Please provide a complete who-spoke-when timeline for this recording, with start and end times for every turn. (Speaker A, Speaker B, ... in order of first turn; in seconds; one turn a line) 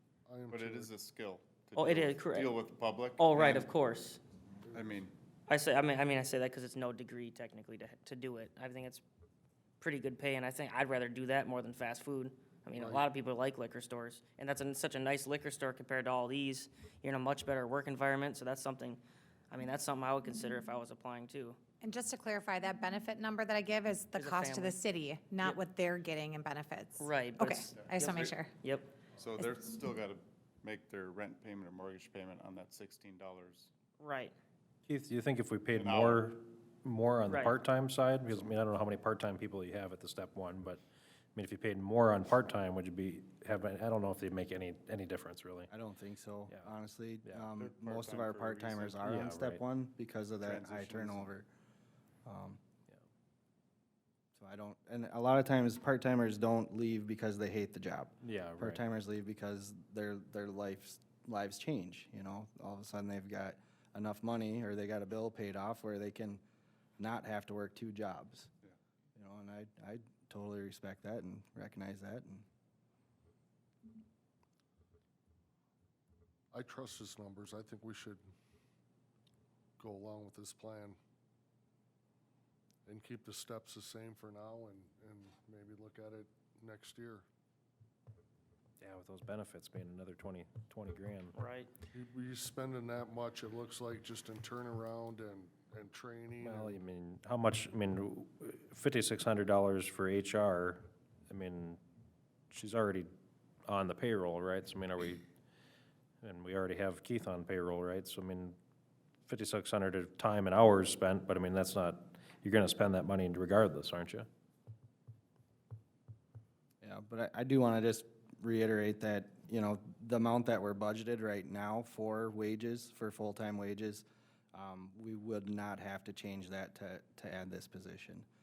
Speaker A: 0.3-0.9
Speaker B: 0.5-3.7
Speaker C: 1.8-2.6
Speaker C: 3.2-4.2
Speaker B: 4.7-5.2
Speaker C: 5.5-9.0
Speaker C: 9.8-21.6
Speaker A: 12.8-13.1
Speaker D: 21.8-28.5
Speaker C: 24.2-24.8
Speaker C: 27.0-28.0
Speaker B: 27.8-28.4
Speaker C: 28.6-28.9
Speaker B: 29.2-33.7
Speaker C: 34.0-34.4
Speaker E: 34.9-40.8
Speaker B: 35.7-36.3
Speaker C: 37.3-37.5
Speaker E: 41.4-45.7
Speaker F: 45.7-51.5
Speaker B: 47.5-49.1
Speaker E: 49.0-49.6
Speaker B: 50.4-51.3
Speaker F: 52.3-52.6
Speaker F: 54.4-66.4
Speaker E: 58.2-58.8
Speaker F: 67.0-68.5
Speaker F: 69.2-72.5
Speaker A: 76.5-78.2
Speaker A: 79.8-81.0
Speaker A: 82.9-87.3
Speaker E: 88.8-91.3
Speaker C: 91.3-91.7
Speaker A: 91.9-96.8
Speaker E: 96.4-101.8
Speaker E: 102.5-103.1
Speaker E: 103.7-105.2
Speaker E: 106.2-108.6
Speaker E: 109.3-114.3
Speaker F: 116.8-128.3